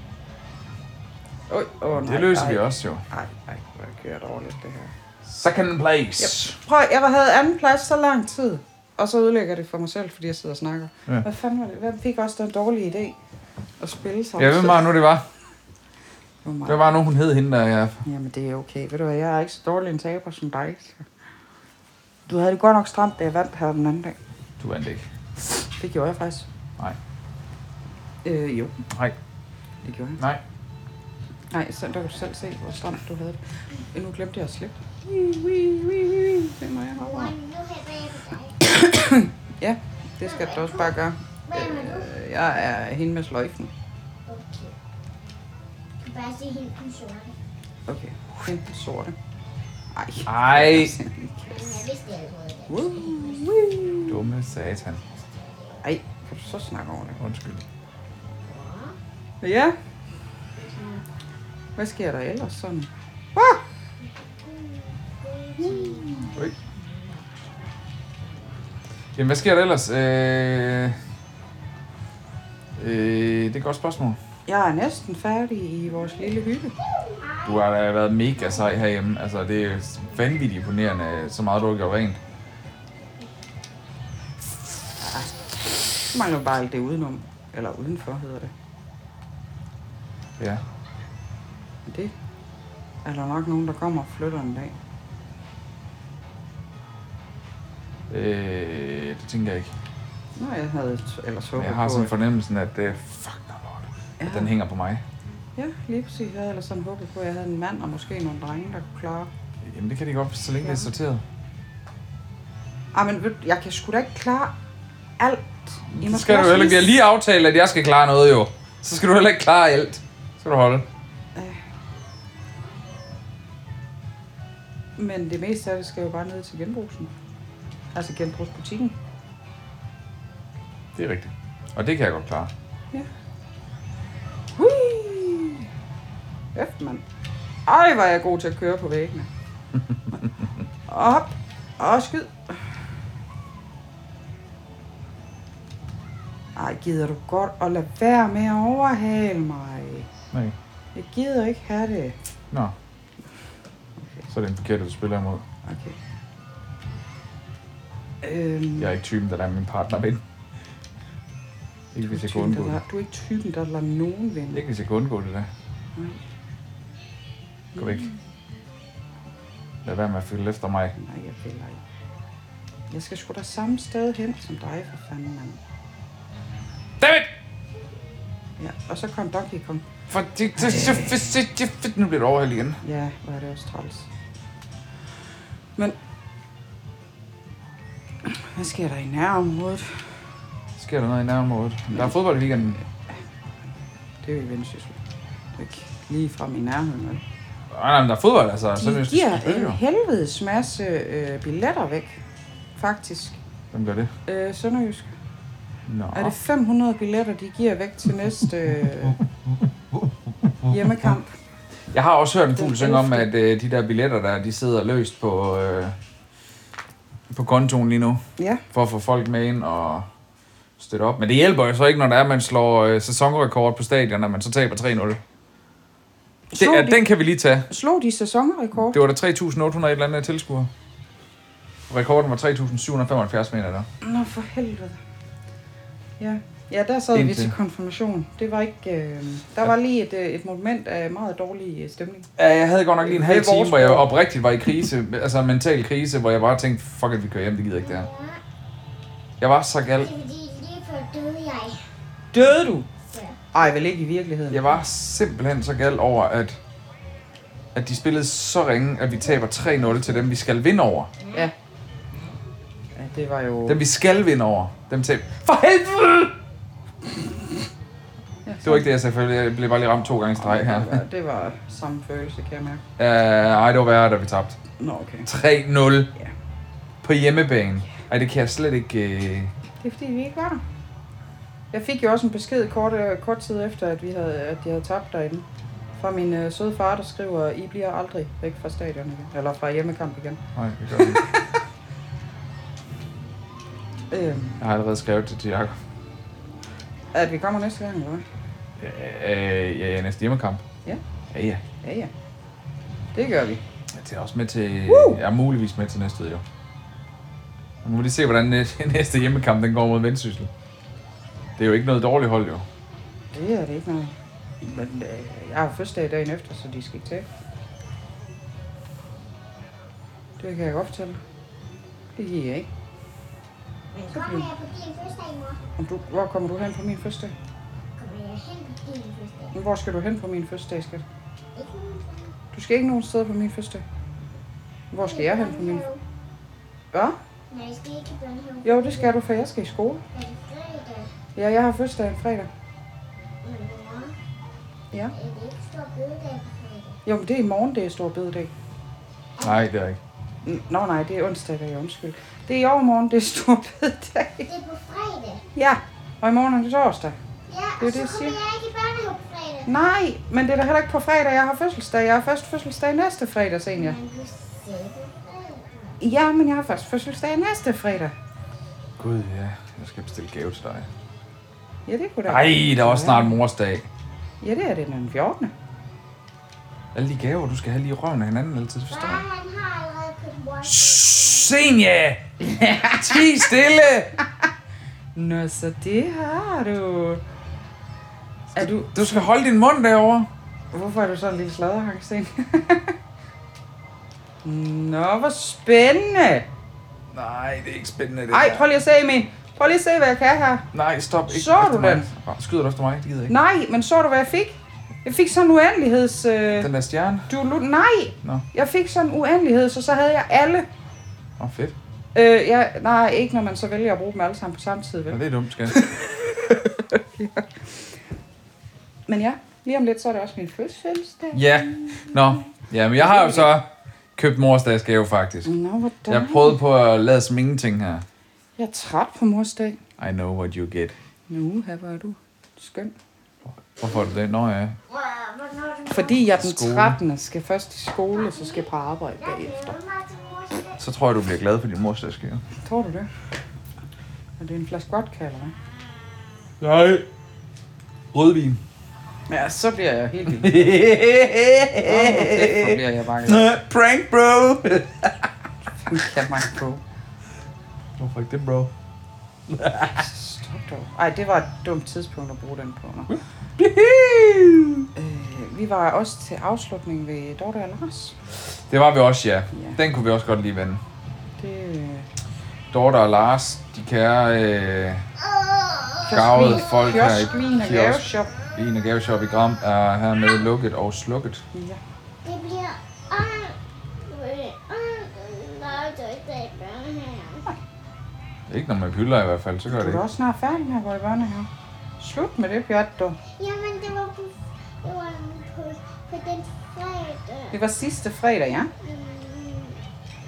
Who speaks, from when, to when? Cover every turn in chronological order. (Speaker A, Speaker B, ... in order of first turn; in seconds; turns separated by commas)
Speaker A: 1.5-4.9, Speaker B: 1.9-3.0, Speaker B: 5.2-6.6, Speaker A: 6.2-13.2, Speaker A: 13.8-14.9, Speaker B: 14.4-15.2, Speaker A: 16.4-16.8, Speaker B: 16.6-18.0, Speaker A: 18.0-21.0, Speaker A: 22.3-24.2, Speaker B: 24.6-25.1, Speaker A: 25.8-26.5, Speaker A: 28.2-28.8, Speaker B: 28.9-29.1, Speaker A: 29.8-30.2, Speaker A: 31.5-33.4, Speaker A: 33.9-37.3, Speaker C: 37.0-38.6, Speaker A: 38.6-43.7, Speaker C: 40.2-40.9, Speaker C: 41.5-42.1, Speaker C: 44.3-44.7, Speaker C: 46.0-47.3, Speaker A: 47.9-49.1, Speaker A: 49.9-51.8, Speaker B: 50.2-51.0, Speaker C: 51.5-53.6, Speaker A: 52.7-54.2, Speaker B: 54.1-55.0, Speaker A: 55.8-57.2, Speaker B: 57.2-57.6, Speaker C: 58.4-59.0, Speaker A: 59.4-59.8, Speaker C: 60.6-61.0, Speaker A: 61.8-63.6, Speaker C: 64.0-67.2, Speaker A: 65.6-66.4, Speaker B: 69.2-71.0, Speaker B: 72.8-74.2, Speaker A: 74.5-76.8, Speaker C: 76.8-77.6, Speaker B: 77.4-82.2, Speaker A: 85.0-88.5, Speaker A: 91.9-92.1, Speaker A: 93.0-94.7, Speaker B: 98.1-99.7, Speaker A: 100.3-102.1, Speaker B: 101.6-105.0, Speaker A: 104.2-104.5, Speaker A: 105.5-109.3, Speaker B: 109.6-111.2, Speaker A: 110.6-110.9, Speaker A: 112.9-114.5, Speaker A: 115.2-116.9, Speaker B: 115.9-120.8, Speaker A: 121.3-121.6, Speaker A: 125.0-127.1, Speaker A: 127.9-128.9, Speaker B: 130.9-132.5, Speaker A: 134.6-135.7, Speaker A: 136.5-137.0, Speaker A: 137.7-139.3, Speaker A: 140.9-142.7, Speaker A: 146.6-150.1, Speaker A: 150.9-152.2, Speaker A: 154.0-154.2, Speaker B: 154.3-155.4, Speaker A: 155.6-156.0, Speaker A: 158.2-158.9, Speaker B: 158.8-160.2, Speaker B: 161.9-162.8, Speaker A: 162.0-164.7, Speaker B: 164.5-165.5, Speaker A: 165.9-166.2, Speaker A: 167.8-168.1, Speaker B: 167.8-168.1, Speaker B: 169.8-170.9, Speaker A: 170.9-171.8, Speaker A: 172.9-175.6, Speaker B: 177.0-177.3, Speaker A: 178.6-179.8, Speaker B: 180.1-182.8, Speaker A: 180.6-181.3, Speaker A: 182.8-184.1, Speaker A: 188.2-190.0, Speaker B: 190.8-192.8, Speaker A: 194.2-195.0, Speaker A: 195.6-197.2, Speaker B: 197.7-199.8, Speaker A: 198.8-202.2, Speaker A: 202.8-203.4, Speaker B: 203.7-204.1, Speaker A: 204.2-205.1, Speaker B: 205.9-206.3, Speaker A: 206.1-209.2, Speaker A: 210.7-211.3, Speaker B: 211.9-215.9, Speaker A: 212.5-213.3, Speaker B: 217.3-220.1, Speaker A: 218.4-218.6, Speaker B: 220.8-225.2, Speaker A: 226.5-227.1, Speaker B: 226.6-227.7, Speaker A: 227.7-229.0, Speaker B: 228.9-230.7, Speaker B: 231.9-233.9, Speaker A: 234.0-235.0, Speaker A: 236.2-242.3, Speaker B: 237.1-237.5, Speaker B: 242.4-248.1, Speaker A: 243.0-244.1, Speaker C: 247.8-248.4, Speaker B: 249.4-250.1, Speaker C: 250.0-251.8, Speaker A: 252.3-252.9, Speaker C: 253.1-253.4, Speaker A: 253.5-254.8, Speaker B: 254.5-256.6, Speaker B: 257.7-261.1, Speaker C: 261.2-261.5, Speaker A: 262.9-263.8, Speaker B: 263.6-266.4, Speaker A: 268.4-268.9, Speaker B: 268.6-271.0, Speaker A: 270.4-272.8, Speaker B: 273.0-274.6, Speaker A: 274.8-275.3, Speaker B: 275.2-276.1, Speaker B: 277.0-279.5, Speaker A: 279.8-280.6, Speaker A: 281.7-285.4, Speaker A: 286.0-290.4, Speaker B: 290.5-291.2, Speaker A: 290.9-291.6, Speaker A: 294.1-294.6, Speaker B: 294.6-295.8, Speaker A: 297.1-298.2, Speaker B: 298.8-300.6, Speaker B: 301.3-301.6, Speaker A: 301.8-302.1, Speaker A: 303.1-303.6, Speaker B: 303.9-306.4, Speaker A: 304.9-305.2, Speaker B: 307.8-310.5, Speaker B: 311.6-312.6, Speaker A: 313.3-317.3, Speaker A: 320.4-321.2, Speaker A: 322.1-322.7, Speaker C: 323.9-325.6, Speaker A: 324.1-324.5, Speaker A: 325.8-327.3, Speaker C: 328.0-329.5, Speaker A: 329.5-331.0, Speaker C: 331.6-332.3, Speaker A: 332.5-333.8, Speaker A: 334.9-335.9, Speaker C: 335.0-336.0, Speaker C: 337.5-339.2, Speaker A: 338.6-340.0, Speaker C: 340.1-341.1, Speaker A: 341.3-342.5, Speaker C: 343.4-344.1, Speaker C: 345.1-347.0, Speaker A: 347.0-348.5, Speaker C: 349.4-349.6, Speaker B: 349.4-350.0, Speaker A: 350.4-354.5, Speaker C: 354.4-355.4, Speaker A: 355.6-357.1, Speaker C: 357.5-359.8, Speaker A: 357.8-358.4, Speaker A: 359.6-364.0, Speaker C: 363.7-366.0, Speaker A: 366.0-368.1, Speaker B: 369.0-370.9, Speaker A: 371.9-373.4, Speaker B: 372.3-373.9, Speaker A: 374.4-375.5, Speaker B: 376.9-379.2, Speaker C: 378.9-381.6, Speaker B: 380.6-384.2, Speaker A: 382.4-383.3, Speaker A: 385.1-387.2, Speaker A: 388.5-389.3, Speaker B: 388.6-390.3, Speaker A: 390.7-392.9, Speaker A: 394.4-396.5, Speaker B: 397.1-398.7, Speaker A: 398.3-400.7, Speaker B: 400.7-403.3, Speaker A: 401.3-402.1, Speaker A: 403.3-406.7, Speaker B: 406.6-407.3, Speaker A: 407.3-410.7, Speaker B: 411.4-411.7, Speaker A: 412.1-417.9, Speaker B: 415.1-415.8, Speaker A: 419.1-423.5, Speaker B: 421.3-425.5, Speaker A: 425.4-426.6, Speaker B: 426.1-428.0, Speaker A: 428.6-429.8, Speaker B: 430.0-430.9, Speaker A: 431.3-432.9, Speaker B: 433.6-434.8, Speaker C: 434.9-436.3, Speaker A: 435.9-439.8, Speaker B: 436.4-437.0, Speaker C: 438.1-440.8, Speaker B: 440.8-442.4, Speaker A: 442.6-443.1, Speaker A: 444.4-445.5, Speaker B: 446.6-447.1, Speaker B: 448.1-448.6, Speaker A: 449.3-450.7, Speaker B: 450.3-455.3, Speaker A: 451.8-453.5, Speaker A: 455.9-456.8, Speaker B: 458.0-458.7, Speaker B: 459.5-460.1, Speaker A: 459.9-463.1, Speaker B: 463.1-464.9, Speaker A: 464.9-468.1, Speaker B: 468.7-470.8, Speaker A: 469.5-469.8, Speaker A: 471.4-472.1, Speaker B: 472.7-475.0, Speaker C: 475.2-477.6, Speaker A: 476.0-478.3, Speaker B: 476.1-481.4, Speaker A: 481.5-481.8, Speaker C: 482.2-487.4, Speaker B: 488.5-490.0, Speaker A: 489.7-493.2, Speaker C: 493.3-497.6, Speaker A: 497.5-498.7, Speaker C: 498.8-499.8